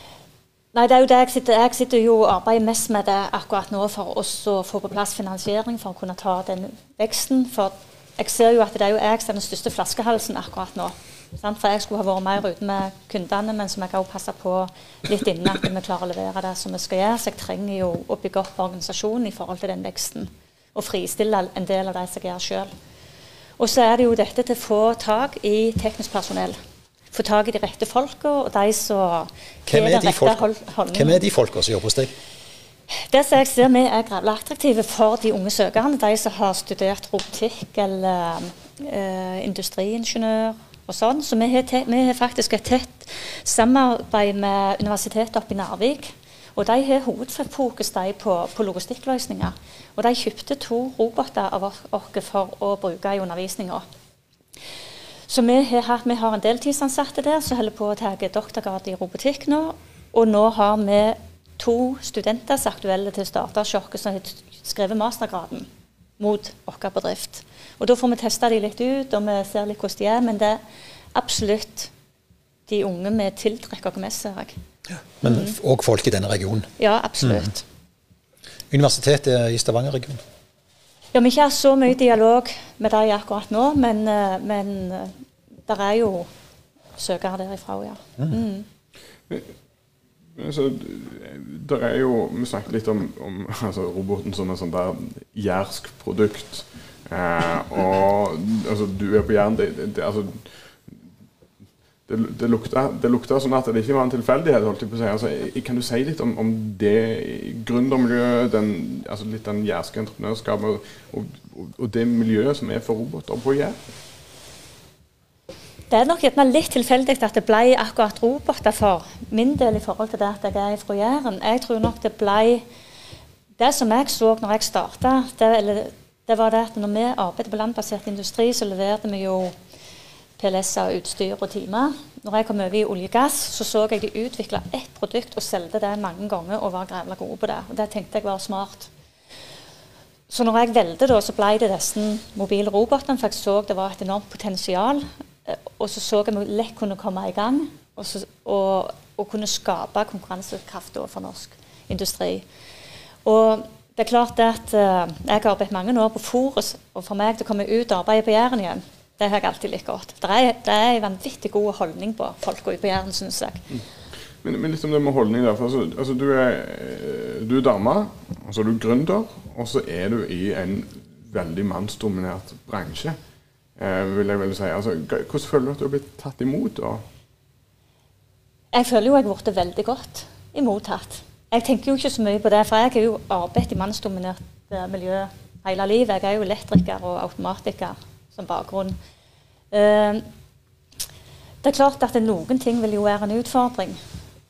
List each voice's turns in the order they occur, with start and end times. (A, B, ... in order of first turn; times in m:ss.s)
0:00.7-0:22.7 A
0:23.6-0:26.6 A
0:27.1-0:31.2 A
0:29.6-0:32.1 B
0:33.1-0:53.8 A
0:55.3-1:05.7 A
1:06.2-1:10.6 A
1:11.1-1:11.9 A
1:12.7-1:14.5 A
1:15.2-1:16.7 B
1:16.8-1:17.6 A
1:18.7-1:20.2 B
1:21.1-1:25.1 A
1:25.7-1:26.3 A
1:27.0-1:28.6 A
1:30.4-1:40.3 C
1:42.1-1:53.8 C
1:55.9-2:02.6 A
2:03.6-2:09.5 A
2:10.4-2:18.9 A
2:20.3-2:32.4 A
2:33.2-2:43.6 A
2:44.4-2:53.2 C
2:53.8-2:57.0 C
2:58.7-3:09.0 A
3:09.7-3:10.2 A
3:11.6-3:14.0 A